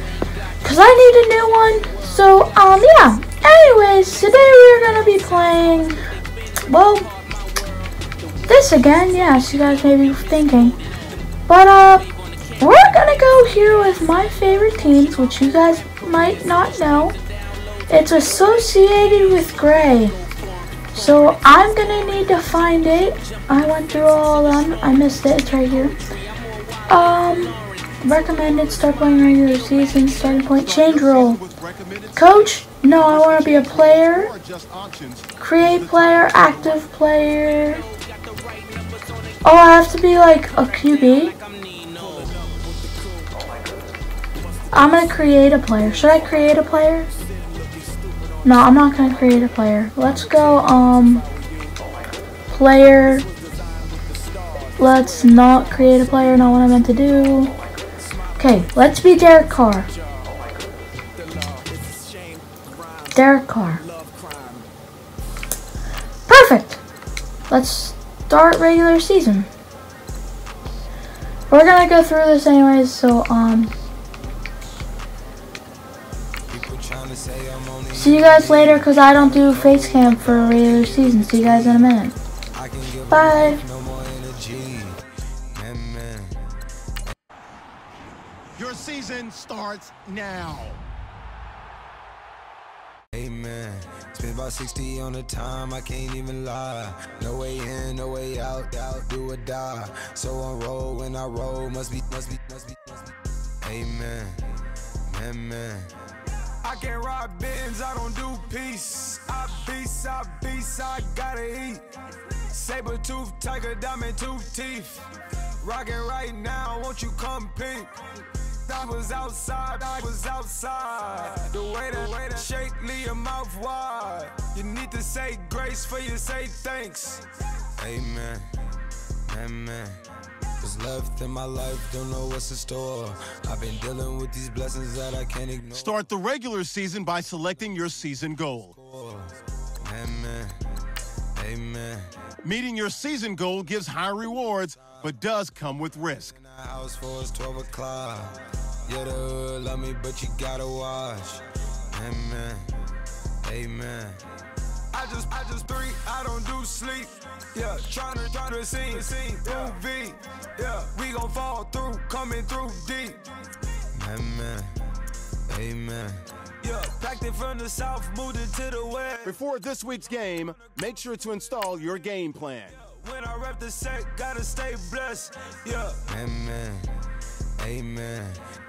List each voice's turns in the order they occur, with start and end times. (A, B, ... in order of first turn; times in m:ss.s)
0:00.6-0:06.0 A
0:06.6-0:07.1 A
0:08.5-0:10.8 A
0:11.5-0:12.1 A
0:12.6-0:17.2 A
0:17.9-0:20.2 A
0:20.9-0:26.0 A
0:26.9-0:31.4 A
0:30.5-0:36.8 B
0:32.1-0:34.3 A
0:35.4-0:37.8 A
0:39.4-0:41.4 A
0:41.9-0:42.5 B
0:44.7-0:47.1 A
0:48.4-0:51.2 A
0:52.5-0:53.2 A
0:54.8-0:57.5 A
0:58.4-0:59.9 A
1:03.1-1:03.8 A
1:06.3-1:06.8 A
1:07.5-1:09.5 A
1:11.5-1:13.7 A
1:16.5-1:21.9 C
1:17.9-1:22.1 A
1:22.5-1:25.0 C
1:23.1-1:23.6 A
1:25.5-1:26.4 C
1:28.6-1:30.8 B
1:33.1-1:45.9 C
1:46.6-1:51.8 C
1:52.5-1:55.0 C
1:55.6-1:58.0 C
1:58.6-2:07.2 C
2:07.8-2:08.5 C
2:09.3-2:10.0 C
2:10.6-2:16.0 C
2:15.7-2:18.8 B
2:18.7-2:20.6 C
2:21.4-2:22.1 C
2:22.4-2:26.4 B
2:26.3-2:32.7 C
2:33.4-2:34.2 C
2:34.9-2:43.3 C
2:43.9-2:44.7 C
2:45.5-2:49.4 C
2:49.2-2:52.8 B
2:52.8-2:57.0 C
2:57.6-2:58.4 C